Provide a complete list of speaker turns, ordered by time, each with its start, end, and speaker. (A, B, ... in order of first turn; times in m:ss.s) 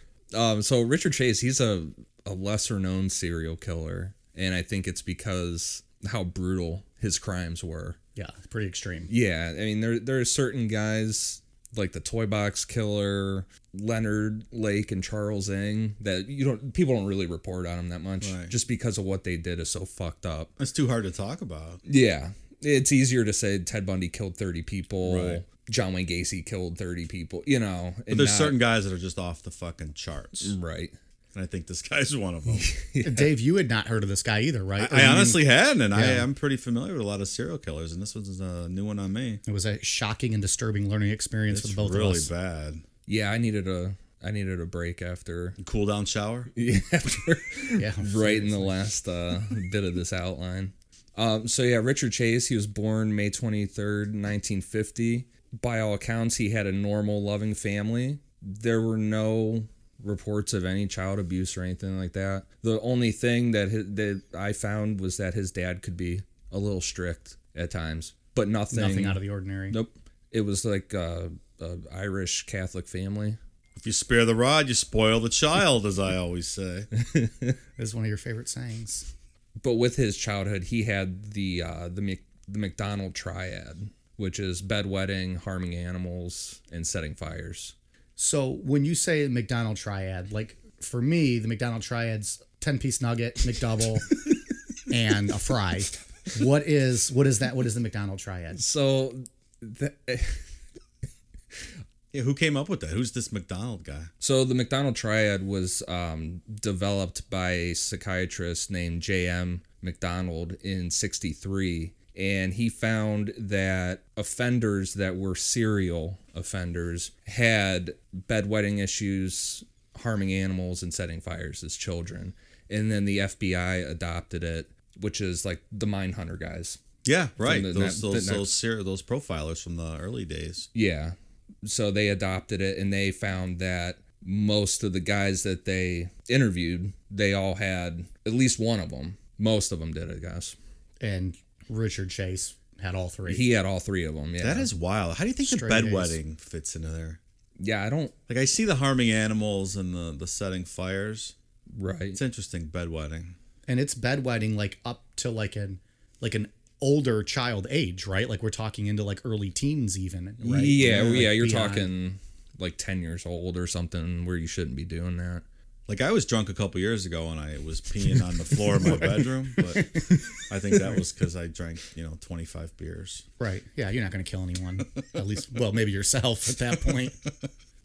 0:00.3-0:08.0 A
0:08.2-0:09.1 B
0:09.1-0:20.5 A
0:18.2-0:18.5 C
0:20.6-0:21.8 C
0:21.8-0:28.6 A
0:25.0-0:25.4 C
0:28.1-0:30.5 C
0:30.4-0:30.9 A
0:31.3-0:32.6 C
0:32.5-0:33.3 A
0:33.0-0:36.3 B
0:34.8-0:39.4 C
0:39.4-0:42.3 B
0:41.5-0:42.8 C
0:43.1-0:45.6 A
0:45.6-0:46.5 C
0:46.6-1:13.4 A
0:47.8-0:48.8 B
1:08.7-1:09.8 B
1:13.8-1:16.9 C
1:17.0-1:17.6 A
1:17.8-1:19.1 B
1:19.6-1:27.7 A
1:28.2-1:34.1 B
1:34.9-1:38.6 B
1:38.6-1:40.4 A
1:42.1-1:44.1 C
1:44.2-2:06.8 A
2:07.0-2:10.7 C
2:07.4-2:08.5 A
2:10.7-2:20.6 A
2:21.0-2:23.4 B
2:23.2-2:24.7 A
2:24.4-2:27.2 C
2:25.4-2:26.2 B
2:27.6-2:28.1 A
2:28.3-2:31.3 C
2:31.7-2:32.2 A
2:32.1-2:33.3 C
2:33.7-2:41.9 B
2:40.4-2:45.4 A
2:45.9-2:53.2 C
2:48.8-2:50.3 B
2:53.4-2:57.2 B